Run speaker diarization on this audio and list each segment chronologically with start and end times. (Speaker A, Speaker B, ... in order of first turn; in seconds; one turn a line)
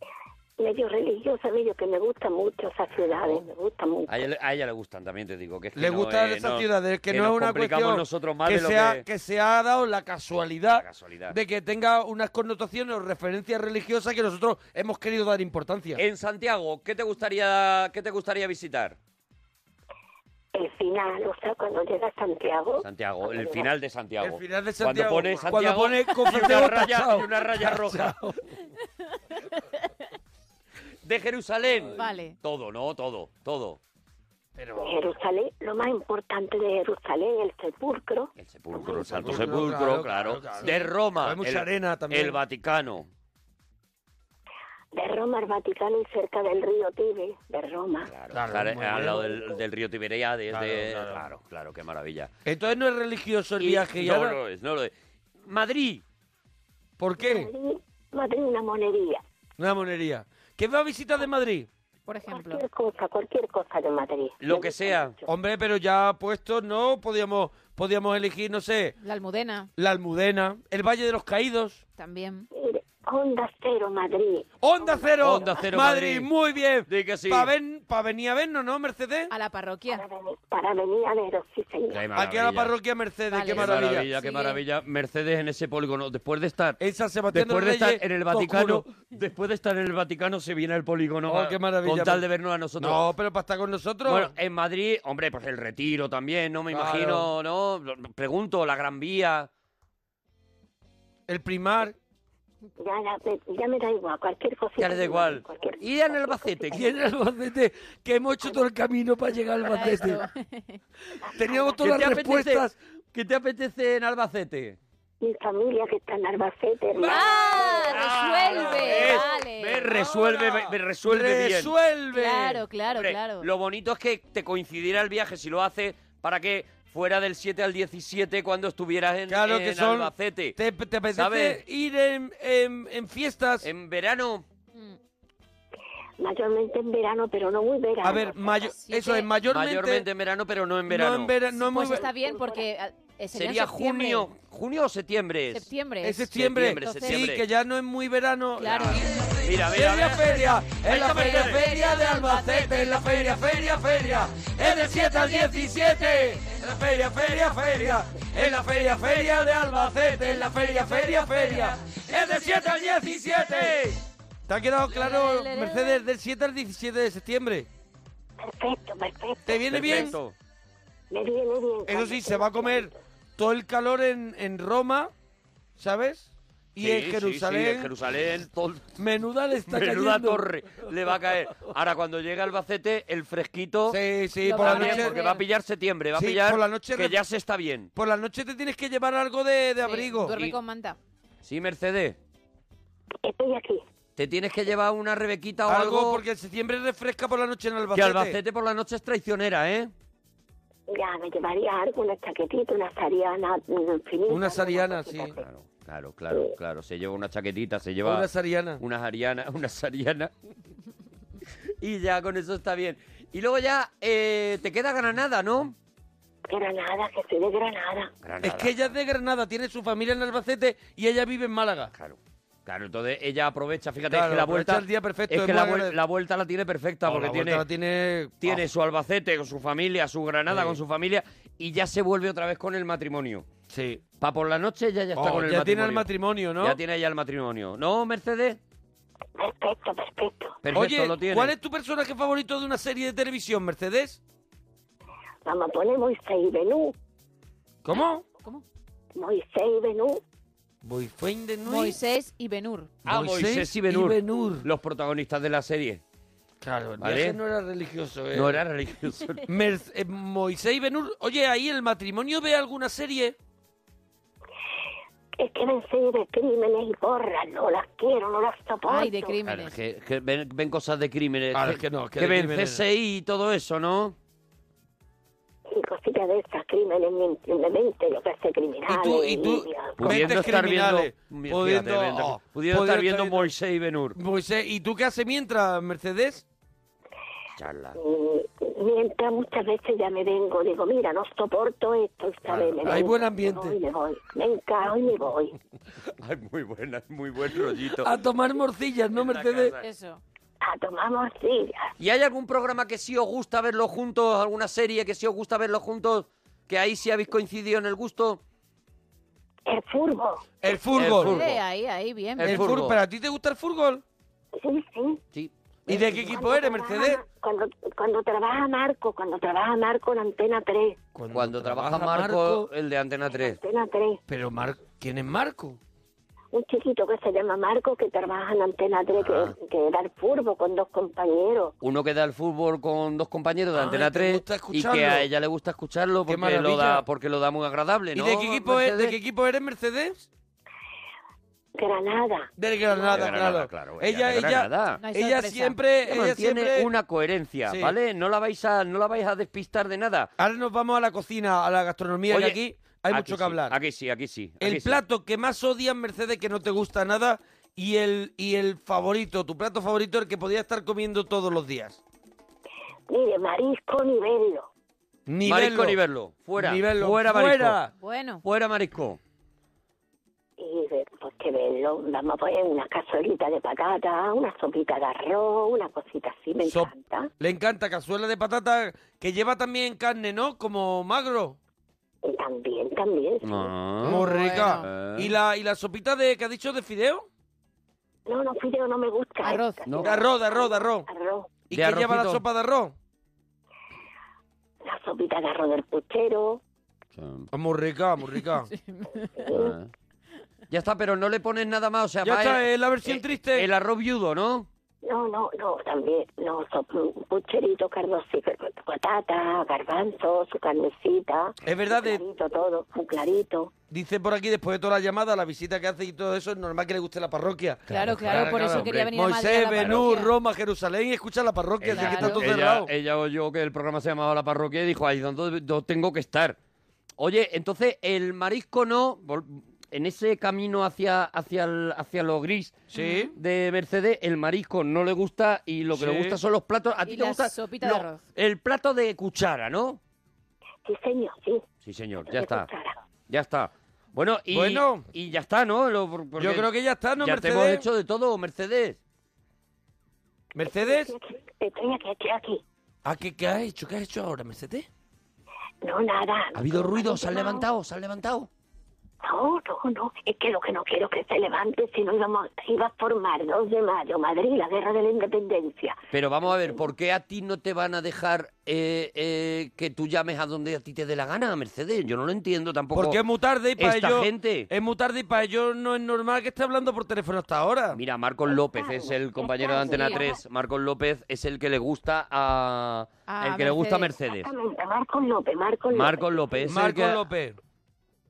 Speaker A: 0.6-4.3
Speaker B: 4.1-9.0
Speaker C: 5.8-16.0
Speaker B: 10.7-11.3
Speaker B: 16.0-19.0
Speaker A: 20.5-23.7
Speaker B: 22.8-28.2
Speaker C: 24.2-28.4
Speaker B: 31.0-33.8
Speaker D: 31.9-32.4
Speaker C: 34.5-35.0
Speaker A: 34.8-39.4
Speaker B: 38.4-43.1
Speaker C: 39.1-42.4
Speaker A: 44.9-48.1
Speaker B: 48.1-52.3
Speaker C: 48.3-49.4
Speaker C: 50.5-51.3
Speaker C: 52.4-54.4
Speaker B: 53.6-54.9
Speaker B: 55.4-56.0
Speaker C: 57.0-57.5
Speaker A: 57.2-59.2
Speaker C: 59.6-61.7
Speaker D: 62.1-62.6
Speaker A: 62.3-65.3
Speaker B: 64.4-65.1
Speaker C: 65.2-69.0
Speaker D: 69.0-69.7
Speaker C: 69.8-71.8
Speaker D: 72.0-72.5
Speaker A: 72.5-75.0
Speaker C: 74.6-79.3
Speaker B: 75.2-76.3
Speaker B: 76.9-77.5
Speaker D: 79.3-80.0
Speaker A: 79.9-82.0
Speaker B: 81.9-82.7
Speaker C: 82.1-84.1
Speaker D: 83.3-84.6
Speaker B: 83.5-86.8
Speaker C: 86.8-88.8
Speaker B: 87.3-93.0
Speaker C: 91.2-92.2
Speaker C: 92.8-94.3
Speaker B: 94.0-99.5
Speaker C: 96.7-97.3
Speaker C: 101.3-102.0
Speaker A: 102.8-106.9
Speaker B: 104.8-106.9
Speaker C: 106.7-110.2
Speaker D: 109.7-110.8
Speaker C: 111.3-112.8
Speaker A: 111.4-111.7
Speaker B: 111.8-114.8
Speaker A: 115.2-117.4
Speaker C: 116.9-119.3
Speaker D: 117.1-119.9
Speaker B: 117.7-121.7
Speaker C: 119.8-122.6
Speaker D: 122.1-123.5
Speaker B: 122.9-130.6
Speaker C: 129.3-133.7
Speaker B: 131.1-131.6
Speaker B: 133.6-134.4
Speaker A: 136.2-138.7
Speaker C: 138.0-140.1
Speaker D: 138.7-139.3
Speaker B: 139.5-141.3
Speaker C: 140.9-142.1
Speaker D: 141.6-144.3
Speaker A: 141.9-142.6
Speaker B: 143.3-145.7
Speaker D: 145.5-147.3
Speaker C: 146.0-167.7
Speaker B: 146.3-147.4
Speaker D: 148.6-149.2
Speaker B: 148.8-151.6
Speaker D: 150.8-153.1
Speaker D: 154.8-156.4
Speaker D: 164.9-166.1
Speaker A: 168.4-170.0
Speaker C: 169.4-170.2
Speaker B: 169.7-170.3
Speaker A: 171.1-172.9
Speaker C: 171.8-175.1
Speaker C: 175.8-177.9
Speaker B: 176.8-178.9
Speaker C: 179.0-180.5
Speaker B: 179.7-184.0
Speaker C: 183.9-185.2
Speaker D: 184.4-185.4
Speaker B: 184.6-187.9
Speaker C: 186.1-187.2
Speaker C: 187.9-190.3
Speaker D: 189.8-191.0
Speaker B: 191.4-192.2
Speaker A: 193.2-193.8
Speaker B: 194.2-196.2
Speaker C: 195.7-198.4
Speaker B: 197.9-199.9
Speaker A: 200.9-205.4
Speaker C: 204.3-205.3
Speaker B: 205.4-208.3
Speaker C: 208.0-208.8
Speaker B: 208.8-210.3
Speaker B: 211.8-215.7
Speaker A: 216.5-218.1
Speaker B: 218.2-218.8
Speaker C: 218.4-221.9
Speaker B: 221.9-227.6
Speaker C: 224.1-226.0
Speaker C: 227.0-228.6
Speaker B: 228.4-233.4
Speaker C: 230.5-230.8
Speaker C: 233.7-234.0
Speaker B: 234.2-236.1
Speaker C: 235.1-236.8
Speaker B: 236.6-238.6
Speaker A: 239.4-240.6
Speaker B: 240.6-241.5
Speaker C: 240.7-244.2
Speaker A: 245.4-246.9
Speaker C: 247.8-248.2
Speaker A: 249.2-250.2
Speaker C: 250.8-252.0
Speaker D: 251.7-252.9
Speaker B: 253.0-256.0
Speaker C: 253.1-254.7
Speaker C: 256.6-258.6
Speaker B: 257.0-257.4
Speaker B: 258.3-259.4
Speaker C: 259.4-263.4
Speaker A: 265.4-269.4
Speaker D: 268.9-269.7
Speaker B: 269.5-274.1
Speaker C: 271.5-272.8
Speaker A: 275.7-280.3
Speaker C: 278.9-283.5
Speaker B: 280.0-284.2
Speaker C: 284.1-286.4
Speaker B: 287.6-288.0
Speaker A: 287.9-295.6
Speaker B: 292.4-293.1
Speaker C: 292.8-293.8
Speaker B: 296.2-298.1
Speaker C: 297.9-299.8
Speaker B: 299.1-299.8
Speaker D: 299.8-300.2
Speaker A: 300.6-301.9
Speaker B: 302.0-308.4
Speaker A: 309.6-310.6
Speaker C: 310.6-311.4
Speaker B: 310.9-311.6
Speaker D: 311.2-312.7
Speaker B: 312.4-313.0
Speaker C: 312.4-314.0
Speaker A: 314.6-315.2
Speaker C: 315.9-317.2
Speaker A: 315.9-321.0
Speaker C: 321.1-322.7
Speaker B: 321.3-323.6
Speaker A: 323.3-324.2
Speaker C: 324.3-325.8
Speaker A: 326.5-331.7
Speaker B: 329.2-329.6
Speaker B: 331.8-339.1
Speaker C: 333.7-335.3
Speaker C: 336.3-337.0
Speaker C: 338.1-340.3
Speaker A: 341.8-343.3
Speaker C: 342.6-346.9
Speaker B: 343.1-345.0
Speaker D: 345.0-345.8
Speaker B: 346.1-350.3
Speaker C: 347.7-347.9
Speaker C: 350.4-353.7
Speaker B: 352.3-355.0
Speaker C: 354.6-362.0
Speaker A: 363.1-364.7
Speaker C: 365.3-366.0
Speaker B: 365.4-367.8
Speaker C: 366.6-367.9
Speaker D: 368.0-368.4
Speaker B: 368.4-369.2
Speaker A: 370.6-377.3
Speaker C: 376.6-381.6
Speaker A: 382.2-383.7
Speaker B: 383.4-385.4
Speaker C: 384.0-387.3
Speaker D: 384.1-384.9
Speaker A: 388.2-391.5
Speaker D: 389.4-389.9
Speaker B: 389.9-390.1
Speaker C: 390.0-391.1
Speaker C: 391.7-392.9
Speaker B: 391.7-392.4
Speaker A: 394.8-396.6
Speaker B: 397.1-397.5
Speaker C: 397.5-398.7
Speaker D: 398.7-399.3
Speaker A: 399.4-399.8
Speaker B: 399.5-399.9
Speaker B: 400.7-404.7
Speaker C: 402.2-403.7
Speaker A: 405.0-413.7
Speaker C: 411.6-412.2
Speaker C: 413.9-422.9
Speaker B: 417.9-419.1
Speaker D: 417.9-420.3
Speaker B: 419.7-420.1
Speaker B: 421.8-426.6
Speaker D: 421.9-422.4
Speaker B: 427.2-432.8
Speaker C: 432.9-433.3
Speaker D: 432.9-433.3
Speaker B: 433.4-440.0
Speaker C: 435.9-436.4
Speaker D: 437.1-438.2
Speaker A: 440.8-441.6
Speaker B: 441.8-442.7
Speaker A: 442.2-443.0
Speaker B: 443.3-449.0
Speaker C: 444.5-445.1
Speaker C: 446.4-447.9
Speaker C: 450.5-451.1
Speaker A: 450.6-452.6
Speaker C: 453.0-454.9
Speaker A: 455.8-457.6
Speaker B: 456.5-458.5
Speaker A: 459.2-466.0
Speaker B: 466.1-473.2
Speaker C: 472.9-478.0
Speaker B: 473.8-474.7
Speaker B: 477.9-484.5
Speaker A: 478.4-480.4
Speaker D: 479.9-480.2
Speaker D: 483.3-484.1
Speaker A: 484.2-486.7
Speaker B: 485.9-487.2
Speaker C: 486.6-487.6